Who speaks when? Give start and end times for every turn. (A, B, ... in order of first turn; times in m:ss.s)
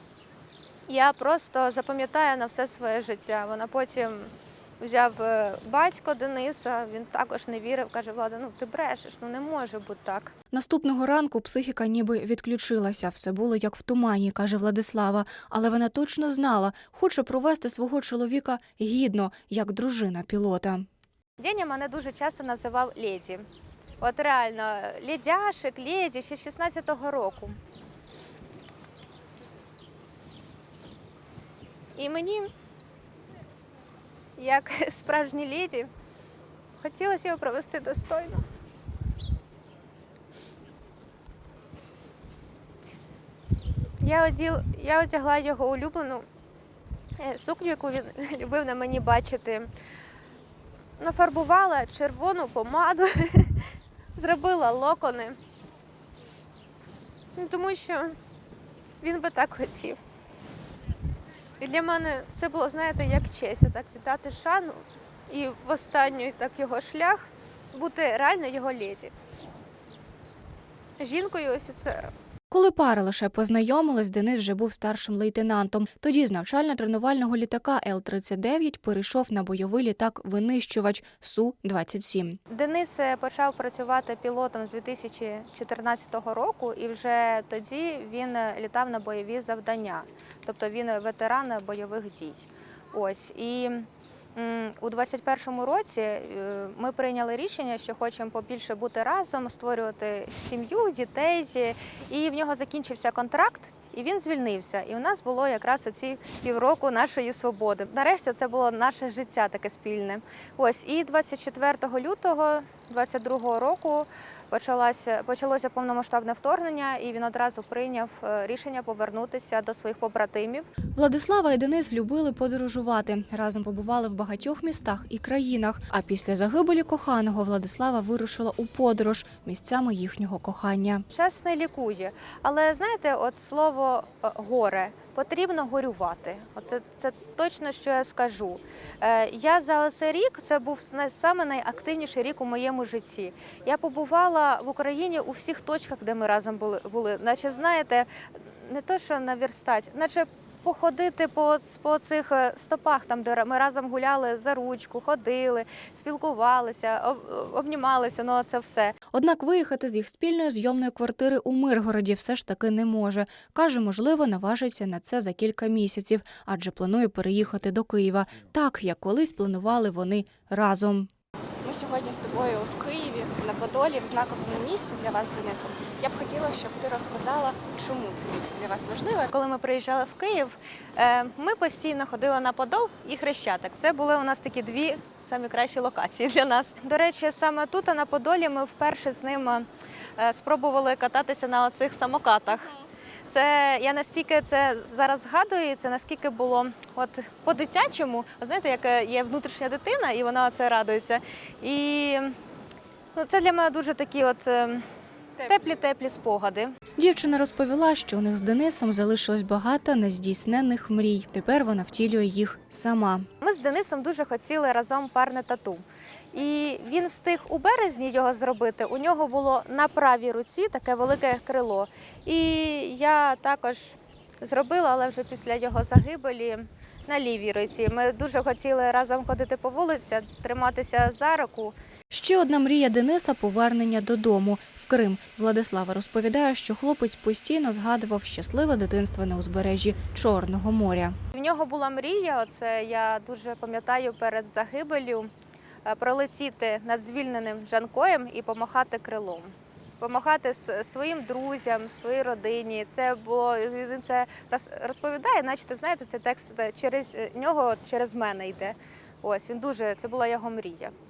0:00.9-0:10.3 A
0:10.5-0:20.9 B
0:21.4-0:23.5 A
0:24.0-0:27.6 A
0:32.0-0:32.5 A
0:34.4-0:35.9 A
0:36.8-0:38.4 A
0:44.0-0:46.3 A
0:47.2-0:49.7 A
0:51.0-0:55.4 A
0:57.4-0:58.2 A
0:59.0-1:00.0 A
1:01.6-1:09.1 A
1:11.0-1:12.1 A
1:12.5-1:22.4 B
1:22.5-2:00.7 A
2:01.0-2:11.0 B
2:11.1-2:39.0 A
2:39.1-2:51.1 B
2:51.6-2:59.3 C
2:59.3-3:09.7 A
3:10.2-3:12.7 A
3:13.3-3:22.4 A
3:23.1-3:24.8 A
3:25.4-3:26.7 A
3:27.0-3:33.3 B
3:33.4-3:51.8 A
3:52.1-4:01.2 B
4:01.3-4:05.3 A
4:05.8-4:20.9 A